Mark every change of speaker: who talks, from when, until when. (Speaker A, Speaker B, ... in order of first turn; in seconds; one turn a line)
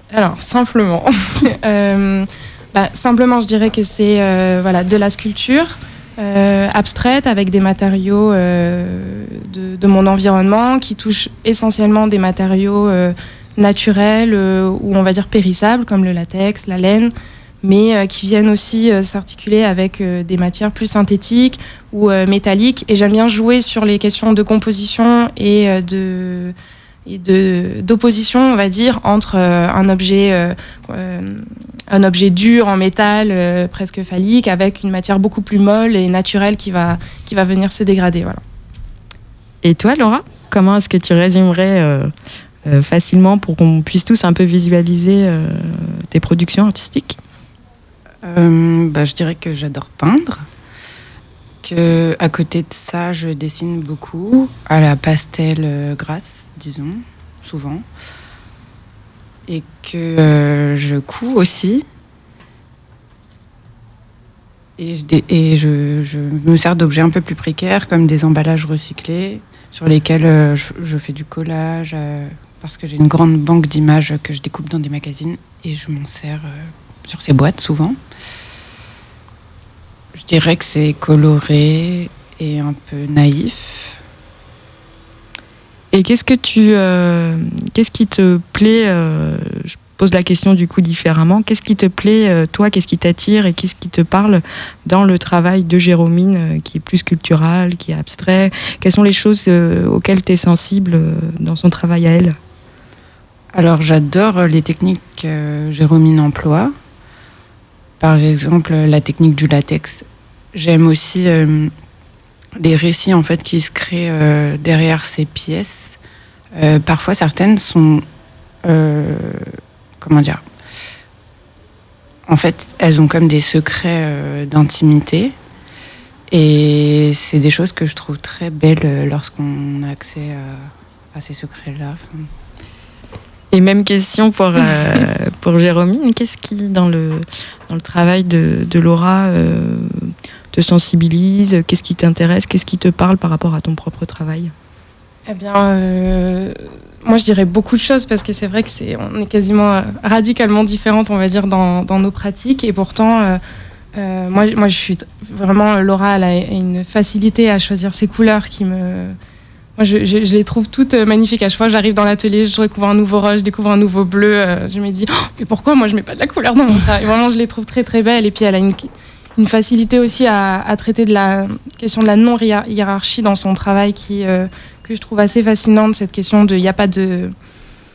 Speaker A: 0.1-17.1
Speaker A: 17.6-26.5
Speaker A: 27.1-38.4
Speaker B: 39.6-42.1
Speaker B: 42.6-47.2
Speaker C: 48.2-50.4
Speaker C: 51.6-57.8
Speaker C: 59.5-61.8
Speaker C: 64.8-78.0
Speaker C: 80.1-84.0
Speaker B: 85.9-102.3
Speaker C: 103.5-106.7
Speaker C: 108.0-111.7
Speaker C: 112.6-116.0
Speaker C: 116.5-118.0
Speaker C: 118.6-120.4
Speaker C: 122.3-125.3
Speaker C: 126.3-132.3
Speaker B: 133.5-144.5
Speaker A: 145.3-153.4
Speaker A: 153.9-159.1
Speaker A: 159.8-177.3